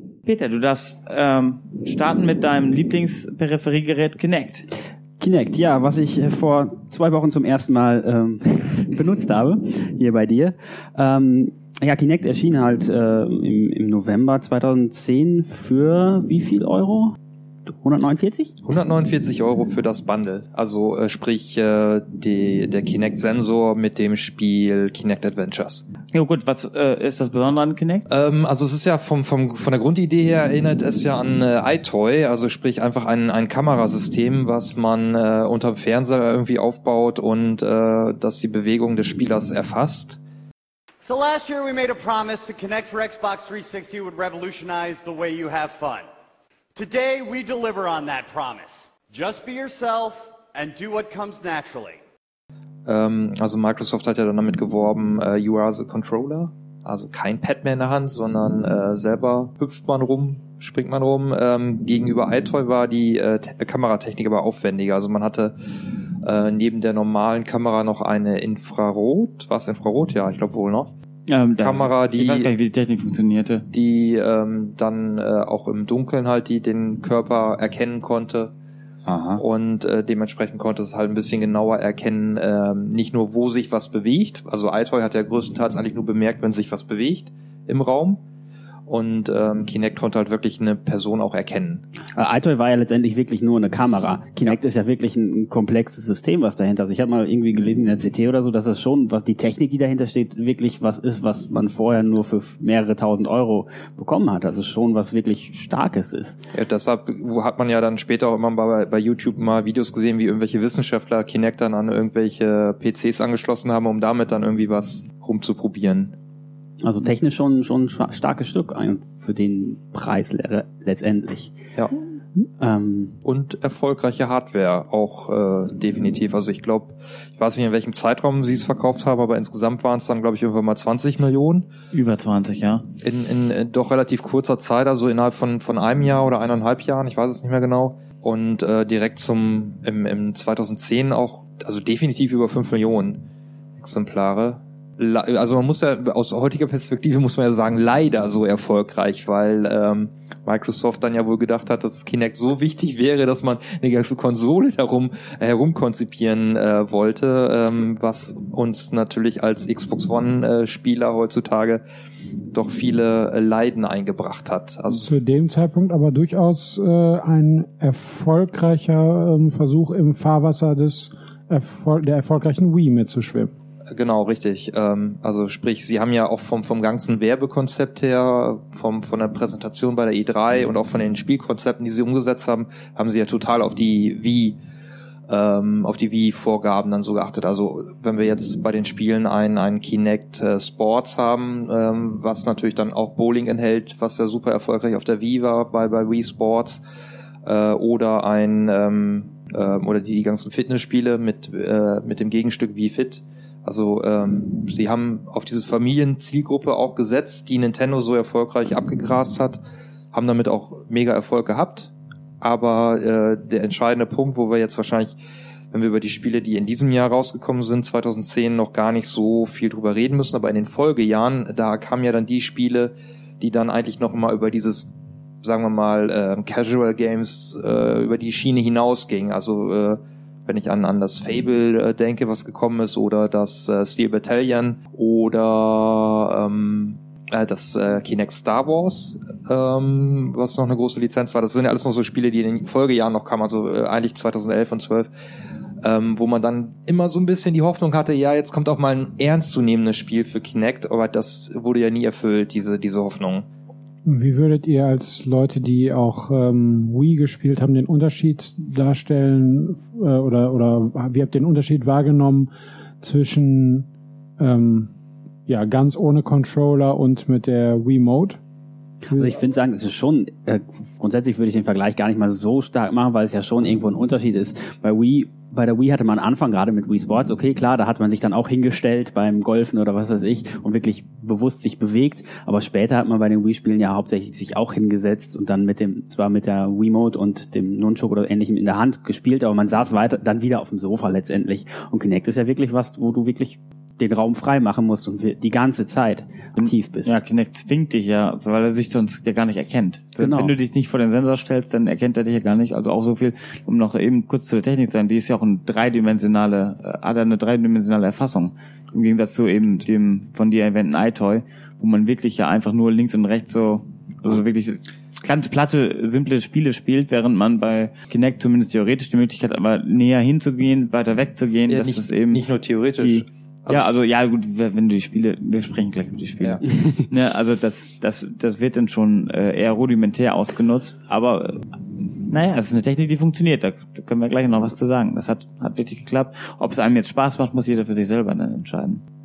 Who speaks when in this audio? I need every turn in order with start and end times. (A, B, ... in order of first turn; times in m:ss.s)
0:00.2-0:04.7 A
0:05.2-0:18.5 B
0:18.6-0:25.8 C
0:26.1-0:28.1 A
0:28.1-0:40.2 C
0:41.0-0:46.1 D
0:46.8-0:52.0 D
0:52.9-1:05.6 C
1:06.2-1:10.9 C
1:11.3-1:13.7 A
1:11.6-1:12.5 C
1:13.7-1:18.5 C
1:19.1-1:19.4 A
1:19.4-1:28.2 C
1:28.9-1:31.8 C
1:32.2-1:46.4 B
1:46.5-1:56.2 C
1:56.8-2:01.5 B
2:02.6-2:03.2 B
2:03.2-2:11.7 C
2:11.9-2:12.8 A
2:13.0-2:23.2 C
2:23.8-2:41.8 C
2:42.5-2:45.1 C
2:45.0-2:53.5 E
2:53.9-3:04.6 C
3:05.3-3:16.8 C
3:17.4-3:29.6 C
3:30.1-3:35.2 C
3:35.7-4:05.1 C
4:05.8-4:13.5 C
4:14.0-4:23.9 E
4:24.4-4:24.9 E
4:25.5-4:28.4 E
4:29.1-4:29.4 E
4:29.1-4:57.1 B
4:56.6-5:22.4 A
5:00.2-5:00.5 B
5:21.7-5:23.9 C
5:23.0-5:31.6 A
5:26.7-5:27.0 B
5:32.3-5:39.0 A